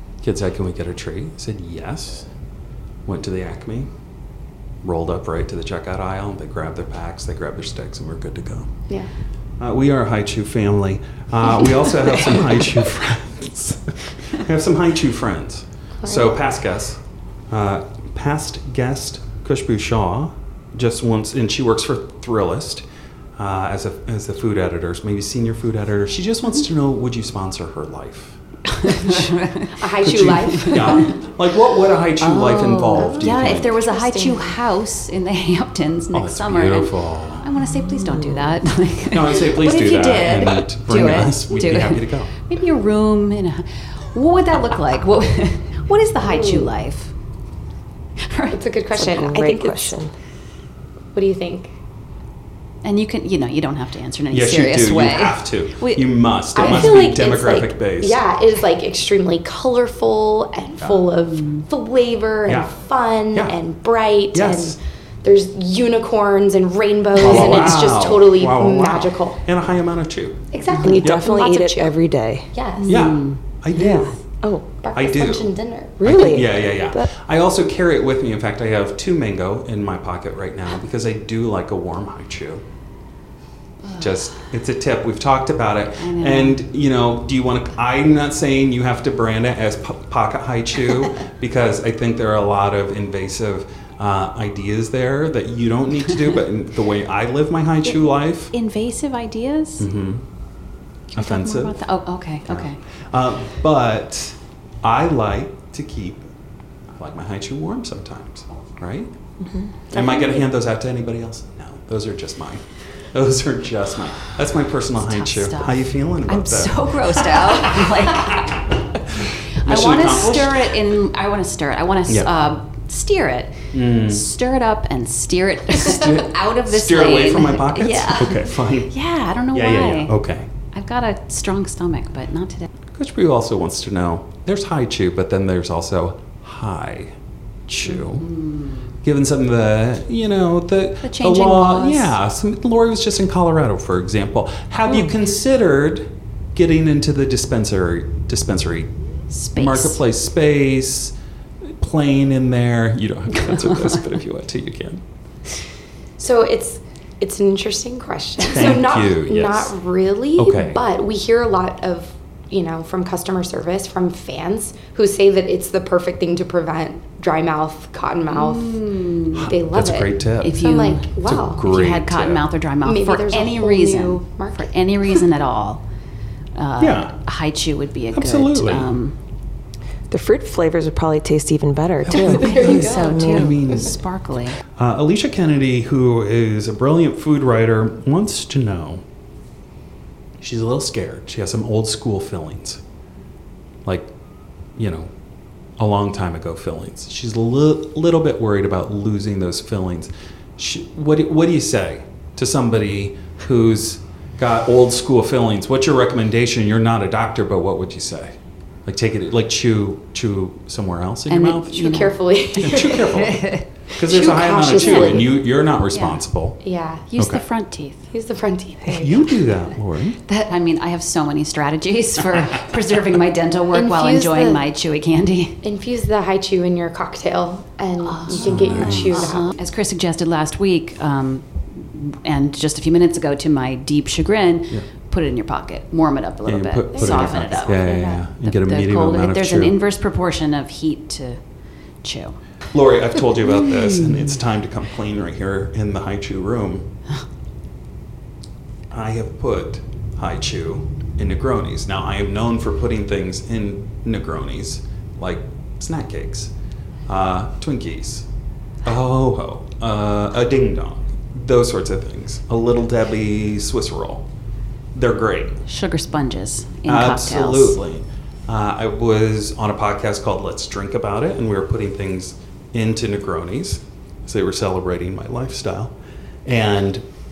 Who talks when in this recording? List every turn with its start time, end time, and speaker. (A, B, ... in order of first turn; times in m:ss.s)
0:00.2-0:02.3 A
0:03.0-0:03.9 A
0:04.8-0:08.7 A
0:09.6-0:22.8 A
0:16.0-0:16.3 B
0:23.4-0:29.3 A
0:28.7-0:31.1 C
0:29.8-0:31.1 B
0:30.0-0:33.7 A
0:32.2-0:47.1 C
0:32.9-0:34.6 B
0:36.1-0:37.5 A
0:39.1-0:42.3 A
0:46.4-0:46.6 B
0:48.2-0:48.6 C
0:48.5-0:50.0 B
0:49.0-0:50.1 D
0:51.1-0:51.7 B
0:52.8-0:56.9 C
0:54.3-0:58.2 A
0:56.5-1:09.4 B
1:01.3-1:01.6 C
1:02.4-1:02.7 A
1:04.3-1:04.8 A
1:07.2-1:10.4 A
1:10.5-1:11.9 B
1:10.7-1:11.0 C
1:10.8-1:12.5 D
1:11.0-1:11.3 A
1:12.5-1:13.1 B
1:12.8-1:13.4 C
1:12.9-1:14.1 A
1:13.7-1:14.6 D
1:14.8-1:16.2 B
1:14.9-1:15.5 A
1:16.0-1:17.1 D
1:16.0-1:22.6 A
1:23.8-1:24.2 C
1:24.0-1:38.5 A
1:26.0-1:26.6 C
1:38.5-1:39.9 C
1:39.8-1:40.2 A
1:41.1-1:41.8 A
1:41.1-1:42.8 C
1:42.5-1:46.2 A
1:46.9-1:49.1 A
1:49.4-1:49.7 D
1:49.9-2:00.8 A
1:49.9-1:50.4 B
1:55.0-1:58.6 C
1:59.6-2:10.1 C
2:03.7-2:04.2 A
2:05.7-2:08.9 A
2:09.5-2:10.5 A
2:10.7-2:12.7 C
2:12.9-2:17.1 A
2:17.7-2:18.3 A
2:17.8-2:18.9 C
2:19.0-2:28.9 A
2:21.0-2:22.1 C
2:29.3-2:30.0 C
2:29.5-2:31.1 A
2:31.8-2:35.0 A
2:33.5-2:33.9 C
2:36.2-2:48.8 B
2:38.4-2:39.7 A
2:40.4-2:40.8 A
2:48.3-2:49.5 C
2:49.4-2:50.6 A
2:49.4-2:51.6 B
2:50.4-2:51.1 C
2:51.2-2:52.4 A
2:51.6-2:55.8 C
2:52.8-2:55.2 B
2:56.5-2:59.2 C
2:56.8-2:57.1 A
2:58.1-2:58.9 A
3:00.1-3:03.6 D
3:02.1-3:03.9 A
3:02.2-3:04.6 C
3:02.2-3:03.2 B
3:04.8-3:09.0 A
3:10.4-3:12.8 A
3:13.8-3:14.1 A
3:14.8-3:15.1 A
3:15.8-3:31.9 A
3:31.3-3:32.2 C
3:31.7-3:33.2 B
3:32.6-3:33.4 A
3:32.9-3:33.7 C
3:34.0-3:35.3 B
3:34.0-3:36.6 A
3:34.8-3:35.2 C
3:35.9-3:36.2 C
3:36.6-3:37.1 B
3:37.1-3:38.0 C
3:37.2-3:37.4 A
3:38.1-3:39.4 B
3:38.9-3:40.2 A
3:40.2-3:45.6 C
3:43.7-3:44.6 B
3:45.6-3:49.5 B
3:48.0-3:57.8 C
3:48.3-3:49.3 A
3:56.4-3:59.8 A
3:56.9-3:58.2 B
3:58.4-4:01.4 C
4:02.0-4:02.4 C
4:02.7-4:06.9 A
4:03.6-4:04.3 C
4:08.9-4:16.5 A
4:17.1-4:18.3 A
4:18.8-4:24.3 A
4:24.9-4:25.6 A
4:25.7-4:27.8 C
4:26.8-4:37.0 A